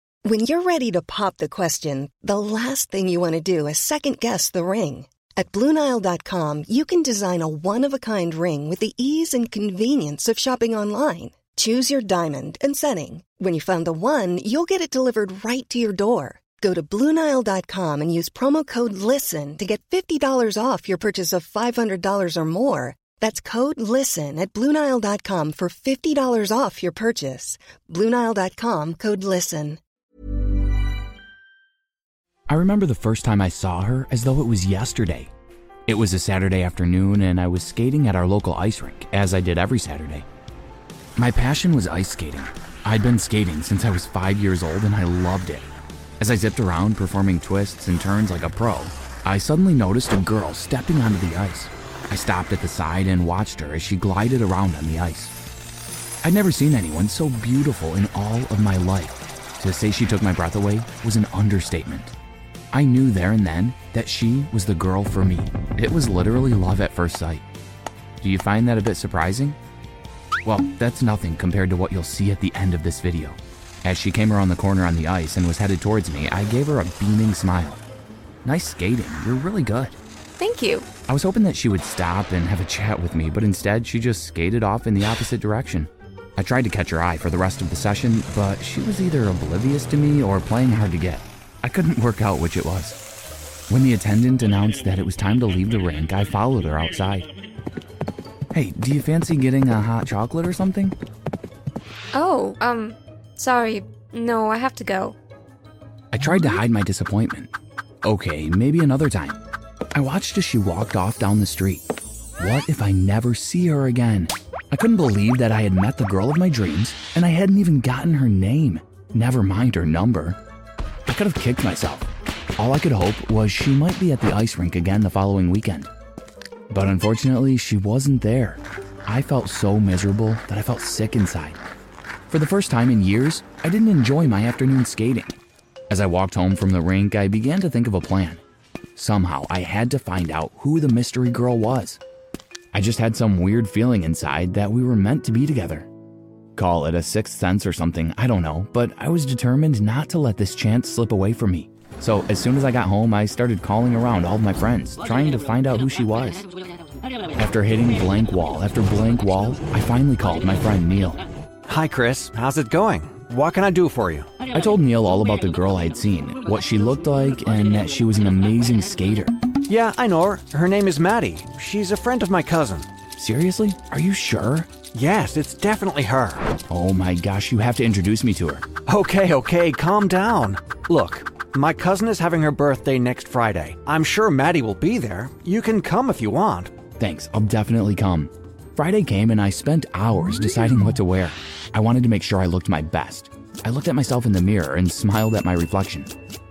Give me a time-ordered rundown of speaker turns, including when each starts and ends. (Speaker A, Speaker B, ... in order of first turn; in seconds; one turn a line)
Speaker A: 0.2-29.8
Speaker B: 32.5-35.3
Speaker B: 35.9-40.3
Speaker B: 41.2-45.7
Speaker B: 46.2-55.4
Speaker B: 56.2-62.1
Speaker B: 62.7-67.5
Speaker B: 68.2-69.6
Speaker B: 70.5-77.8
Speaker B: 78.4-80.0
Speaker C: 80.4-80.9
Speaker B: 81.1-93.0
Speaker B: 93.7-97.3
Speaker B: 98.5-101.0
Speaker C: 102.1-105.2
Speaker B: 106.1-107.5
Speaker B: 108.0-109.4
Speaker B: 110.0-111.8
Speaker B: 112.4-120.4
Speaker B: 121.1-125.9
Speaker B: 126.7-131.6
Speaker B: 132.3-135.4
Speaker B: 135.9-138.4
Speaker B: 139.0-142.0
Speaker B: 142.7-145.9
Speaker B: 146.6-156.5
Speaker B: 157.4-161.2
Speaker D: 161.7-164.3
Speaker B: 164.5-169.3
Speaker D: 169.7-172.9
Speaker B: 173.2-174.7
Speaker D: 174.9-176.4
Speaker B: 176.7-178.6
Speaker D: 178.9-186.7
Speaker B: 187.0-196.1